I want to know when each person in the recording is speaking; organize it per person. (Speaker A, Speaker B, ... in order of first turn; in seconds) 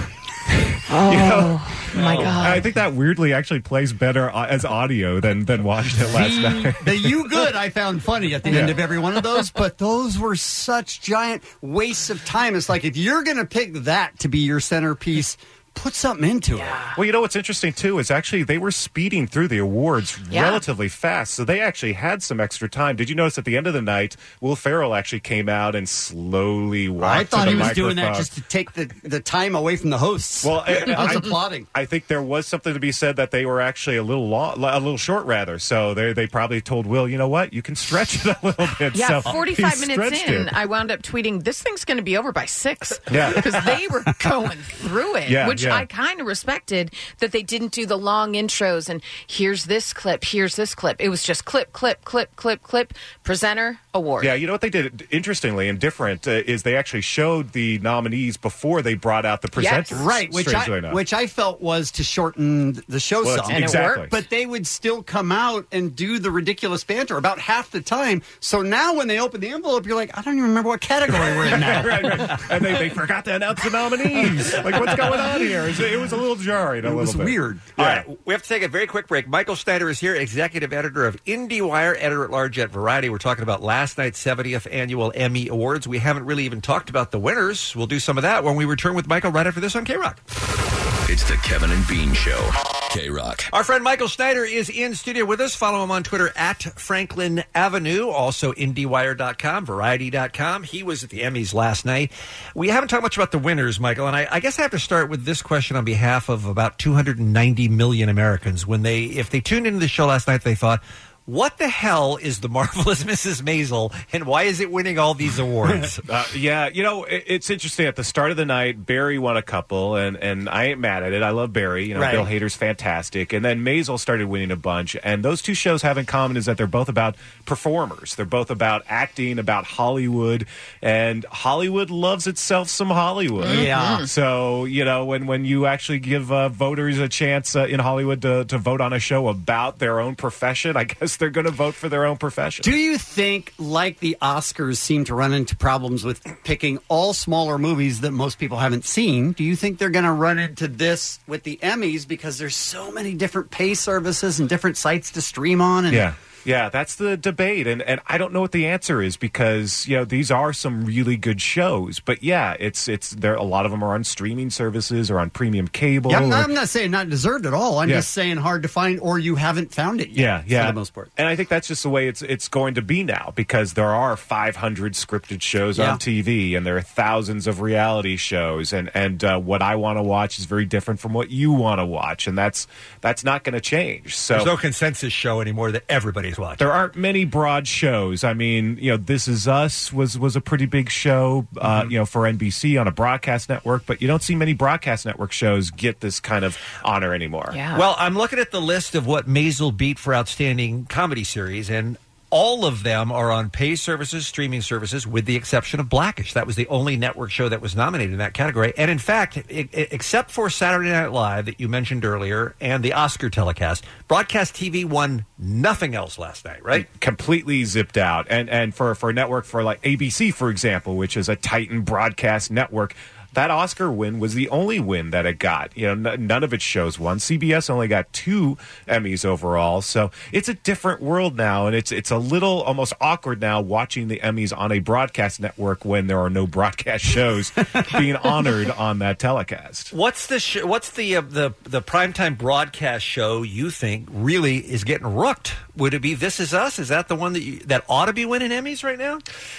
Speaker A: 0.9-2.6, 16.6-16.9, 20.3-20.6, 38.9-54.3, 59.5-60.0, 63.5-64.1, 133.4-134.1, 197.5-197.8
Speaker B: 1.0-7.2, 8.5-8.8, 16.9-28.3, 30.4-40.6, 43.1-43.8, 45.2-45.9, 54.2-61.0, 63.2-64.1, 71.1-78.0, 116.1-142.7, 155.9-166.5, 170.1-184.5, 186.6-197.6, 216.7-239.9
Speaker C: 6.1-16.8, 27.0-31.7, 59.9-72.4, 76.8-77.7, 121.9-122.3, 133.4-134.1, 142.6-156.1, 166.1-171.1, 175.7-176.0
Speaker D: 77.8-90.2, 93.5-116.0, 184.3-186.6, 197.7-216.9, 239.9-249.2
Speaker E: 91.0-93.5